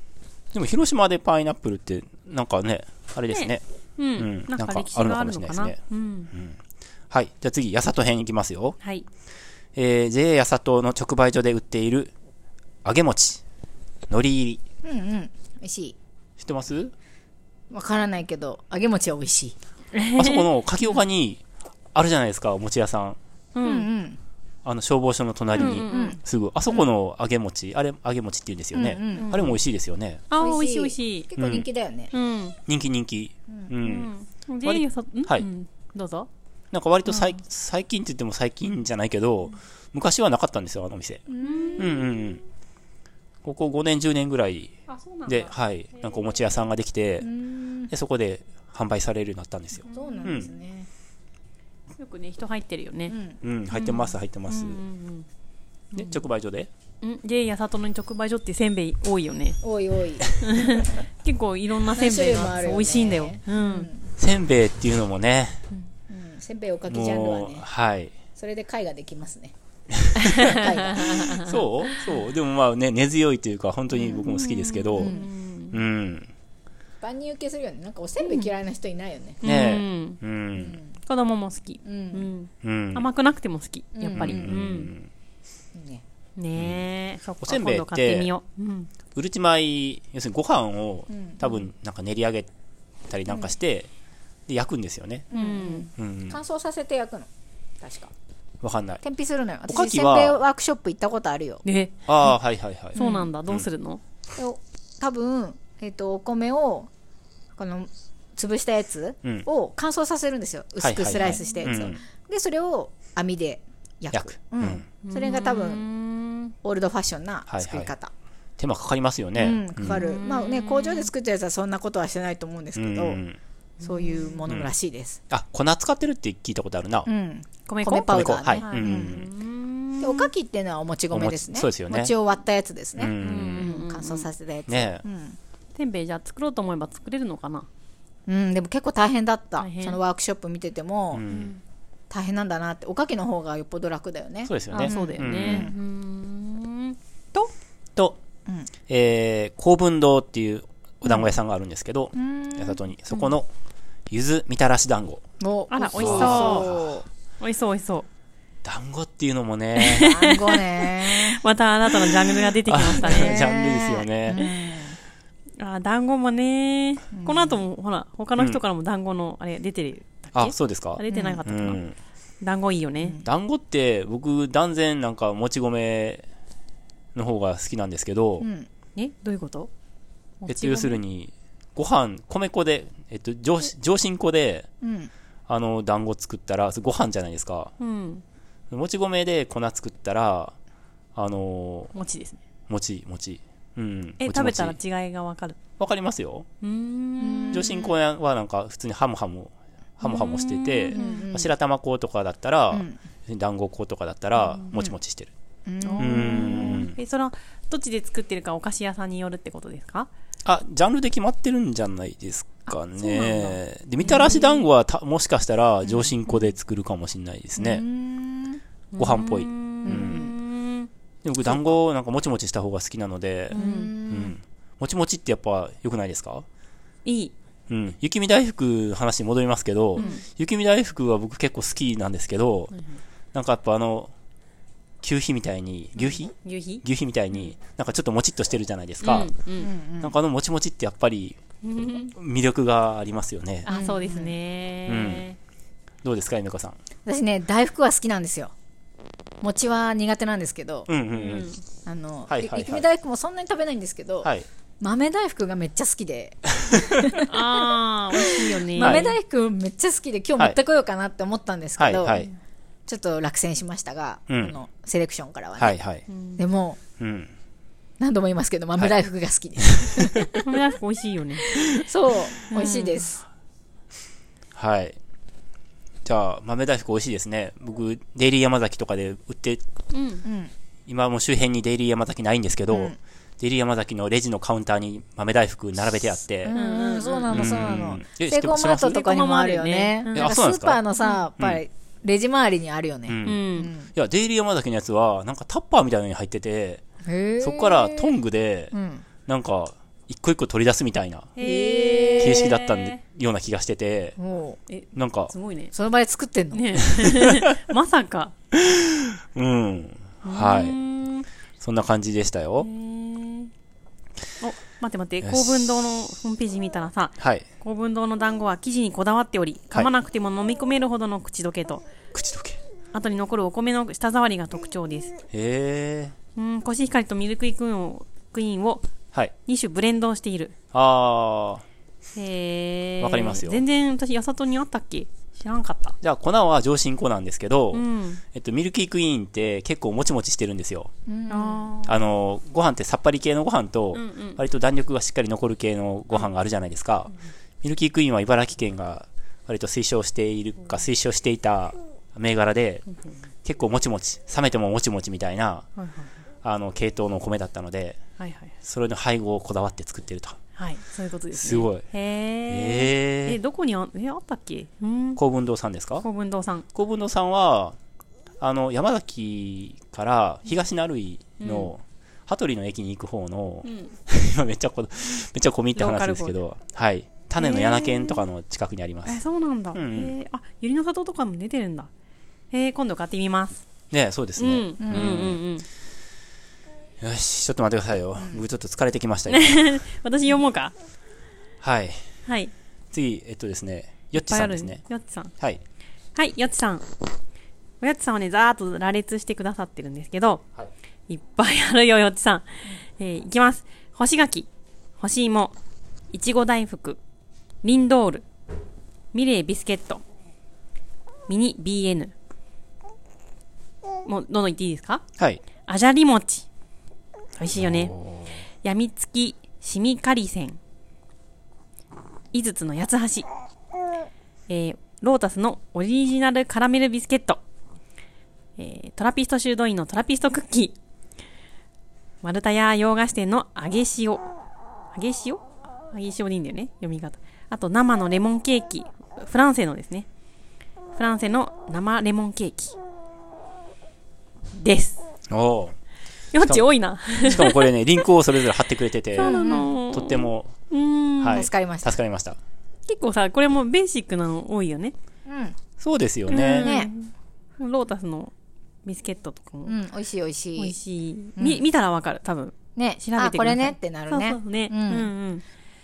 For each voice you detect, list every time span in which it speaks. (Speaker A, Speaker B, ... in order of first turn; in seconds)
Speaker A: 0.5-3.6, 4.2-5.8, 6.3-6.6, 7.1-8.8, 9.8-12.1, 12.8-13.4, 14.1-14.6, 16.4-16.9, 20.2-21.4, 21.9-23.2, 24.6-30.2, 31.4-31.6, 32.7-34.1, 34.6-35.5, 36.7-41.2, 41.8-42.4, 43.4-44.7, 45.3-47.3, 47.9-50.5, 53.4-54.8, 55.9-56.7, 64.2-65.6, 66.9-68.2, 70.1-70.4, 71.2-75.2, 75.7-76.3, 79.4-80.8, 82.6-83.1, 84.2-85.1, 86.6-86.8, 87.4-88.3, 89.1-92.5, 93.1-93.9, 94.5-95.3, 96.0-96.4, 98.6-99.0, 99.7-100.4, 102.1-103.7, 110.8-112.0, 114.1-114.9, 117.5-117.9, 118.6-120.0, 122.8-123.4, 125.3-127.1, 128.1-129.3, 131.1-132.1, 133.0-133.7, 134.7-135.0, 141.1-141.5, 144.5-145.7, 148.9-153.5, 154.1-155.2, 155.9-157.0, 158.6-160.1, 162.3-164.4, 170.3-171.9, 173.2-176.2, 177.2-178.5, 180.5-184.7, 185.5-187.7, 188.7-190.6, 191.2-191.9, 192.7-194.8, 195.8-196.5, 197.5-205.3, 206.0-206.9, 210.4-217.8, 219.0-220.3, 221.2-226.4, 227.7-232.7, 233.3-234.1, 235.0-239.3, 240.0-241.4, 242.0-243.7, 244.9-245.3, 246.0-246.8, 250.9-251.6, 252.3-252.8, 258.8-259.1, 261.8-262.3, 264.3-264.5, 265.6-266.0, 267.0-267.3, 269.6-270.0, 274.6-275.0, 276.1-279.6, 280.9-286.5, 287.3-289.0, 290.1-290.8, 293.1-296.8, 297.4-298.7, 299.3-301.3, 302.2-304.2, 304.9-305.3, 308.5-310.8, 311.6-312.7, 315.2-315.7, 317.2-317.4, 322.1-322.6, 325.3-326.1, 330.7-331.6, 333.0-333.6, 336.0-340.9, 341.8-352.8, 353.4-355.7, 356.4-358.0, 358.6-360.4, 361.3-361.9, 362.5-363.4, 365.2-366.1, 366.7-367.8, 368.4-379.2, 379.7-380.1, 383.9-385.4, 387.0-389.6, 391.6-392.0, 392.9-394.8, 417.5-418.4, 445.3-445.8, 446.4-450.5, 451.2-452.4, 455.8-456.7
Speaker B: 3.3-6.3, 8.8-9.1, 19.9-20.5, 23.6-23.9, 25.6-26.2, 29.2-29.6, 30.3-31.3, 32.1-32.6, 33.8-36.3, 37.1-37.4, 41.4-42.0, 44.9-46.7, 49.8-50.5, 52.0-53.1, 53.7-55.3, 56.0-56.2, 57.0-59.6, 60.4-63.9, 70.2-71.9, 73.9-75.8, 78.2-78.5, 79.4-80.2, 81.0-84.9, 86.4-88.9, 95.3-95.9, 101.7-102.3, 103.0-104.0, 111.1-111.9, 115.0-116.5, 119.8-121.1, 123.8-124.4, 127.7-130.3, 133.2-134.3, 135.8-137.7, 139.6-140.0, 141.3-141.6, 144.7-147.5, 155.7-156.7, 157.4-158.1, 159.8-163.4, 164.4-164.8, 165.6-171.8, 172.4-173.2, 179.0-179.7, 180.4-181.0, 187.8-188.2, 191.9-192.4, 194.2-195.6, 196.6-197.9, 200.0-201.3, 204.3-204.7, 205.8-210.1, 212.7-214.7, 218.9-220.9, 221.4-221.8, 223.5-224.0, 227.1-227.3, 230.0-230.2, 236.0-237.5, 239.0-239.7, 241.6-242.2, 243.7-245.4, 251.1-251.6, 257.3-259.1, 266.1-266.4, 270.4-271.7, 272.5-273.1, 279.9-280.2, 286.5-287.6, 288.7-290.3, 291.0-291.3, 293.2-293.7, 301.4-303.0, 304.7-305.7, 306.5-308.3, 310.2-311.3, 312.6-313.5, 314.4-321.8, 322.9-325.1, 326.4-328.9, 329.5-330.5, 332.1-336.0, 337.7-338.2, 341.3-342.0, 343.9-344.4, 355.8-356.1, 358.2-358.5, 360.6-365.2, 366.0-366.7, 371.4-371.7, 373.6-373.9, 375.8-376.4, 377.4-378.3, 379.1-381.9, 382.5-383.6, 384.4-385.7, 389.3-390.7, 392.3-392.5, 394.1-395.3, 396.1-396.9, 397.8-400.4, 401.1-404.5, 405.0-405.6, 406.1-407.0, 407.6-408.2, 409.1-410.0, 411.3-412.1, 414.1-415.0, 415.7-416.5, 417.4-417.9, 418.6-420.6, 422.3-423.3, 424.5-427.4, 428.6-430.8, 432.2-434.3, 434.9-440.1, 441.0-442.8, 444.6-445.0, 446.3-447.7, 449.1-451.5, 452.9-454.9, 456.3-458.3, 458.9-459.8, 460.6-465.4
Speaker C: 14.8-16.0, 17.7-19.6, 23.6-24.2, 25.6-26.2, 28.7-29.3, 30.4-32.1, 41.3-42.0, 47.2-47.9, 49.9-50.9, 53.1-53.4, 59.6-60.4, 61.9-64.1, 66.1-67.7, 68.4-69.5, 70.3-71.4, 75.0-75.3, 77.0-79.4, 80.6-80.9, 81.8-82.3, 84.0-84.5, 85.7-86.0, 91.1-91.6, 95.3-97.3, 97.8-98.1, 99.0-101.6, 103.0-103.3, 104.4-106.9, 107.6-115.9, 116.6-118.1, 119.4-123.2, 123.8-125.2, 127.1-129.2, 130.0-135.4, 138.3-141.2, 142.1-145.8, 152.1-152.8, 155.4-157.1, 160.0-161.4, 163.0-165.0, 167.1-167.6, 171.1-171.4, 173.0-173.3, 178.4-178.7, 184.8-185.1, 197.2-197.8, 200.9-201.5, 202.7-203.0, 205.7-206.9, 215.8-216.1, 217.6-218.6, 219.8-220.3, 223.5-224.4, 239.6-240.1, 243.7-244.4, 247.1-248.5, 249.4-250.9, 251.9-262.3, 262.9-265.8, 266.4-266.8, 268.0-270.4, 271.5-273.2, 280.2-280.5, 282.7-283.0, 286.4-293.9, 297.1-298.1, 298.7-299.1, 301.4-302.5, 304.2-304.6, 305.7-306.8, 341.1-341.7, 384.8-385.3, 388.2-388.4, 449.2-449.8, 451.3-452.0, 455.3-455.6, 456.4-456.9, 459.7-460.8, 461.4-461.7, 462.8-465.1